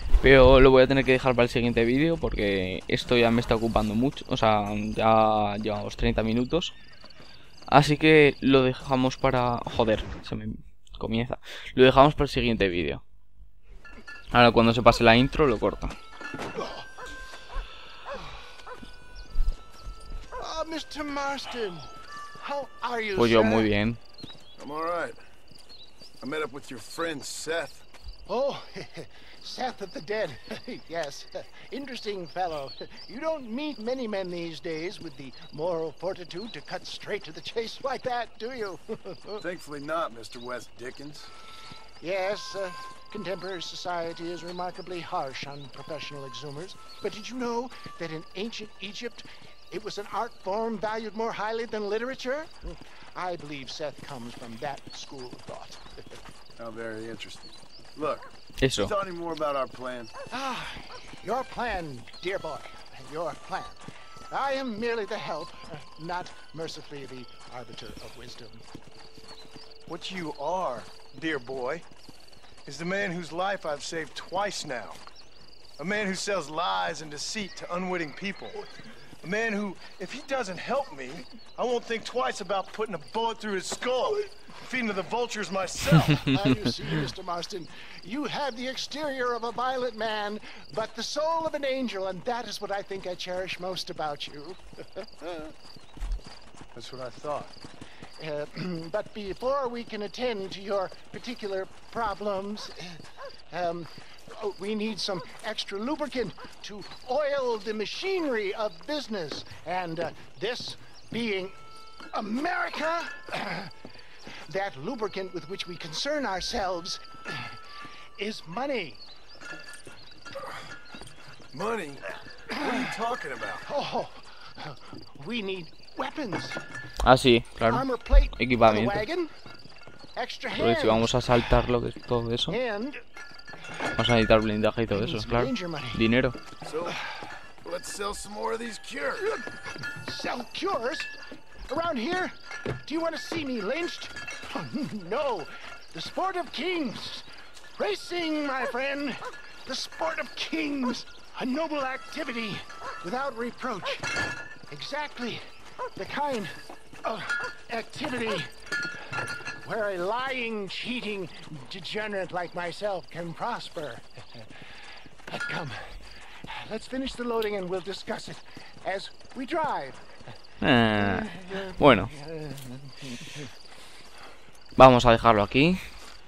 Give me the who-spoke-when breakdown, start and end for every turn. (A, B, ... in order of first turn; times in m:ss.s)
0:00.2-0:06.8 A
0:07.7-0:13.0 A
0:14.3-0:16.0 A
0:16.6-0:16.9 B
0:20.4-0:23.7 B
0:23.1-0:24.0 A
0:24.6-0:25.2 C
0:26.2-0:27.9 C
0:28.3-0:39.4 B
0:39.4-0:41.3 C
0:42.0-0:56.2 B
0:56.6-1:00.1 C
0:58.6-0:58.9 A
1:00.3-1:03.8 B
1:04.3-1:08.6 B
1:09.9-1:11.8 C
1:12.6-1:15.0 C
1:15.8-1:18.6 C
1:19.2-1:26.3 C
1:26.0-1:35.5 B
1:36.8-1:37.5 C
1:38.2-1:51.6 B
1:52.1-1:53.7 B
1:54.5-1:57.6 B
1:58.2-1:59.0 B
2:01.5-2:02.0 C
2:02.6-2:02.9 B
2:02.6-2:03.6 C
2:03.6-2:06.6 B
2:07.0-2:09.0 A
2:07.7-2:09.3 B
2:10.2-2:11.5 B
2:10.6-2:12.6 A
2:12.5-2:13.0 B
2:14.0-2:16.4 A
2:14.9-2:16.0 B
2:16.6-2:17.0 C
2:17.6-2:19.3 C
2:20.0-2:21.1 B
2:21.7-2:27.2 B
2:27.8-2:34.1 B
2:34.7-2:35.4 B
2:36.0-2:38.5 B
2:39.6-2:44.5 B
2:45.3-2:50.1 B
2:50.6-2:52.1 A
2:51.0-2:53.5 B
2:54.8-2:55.8 A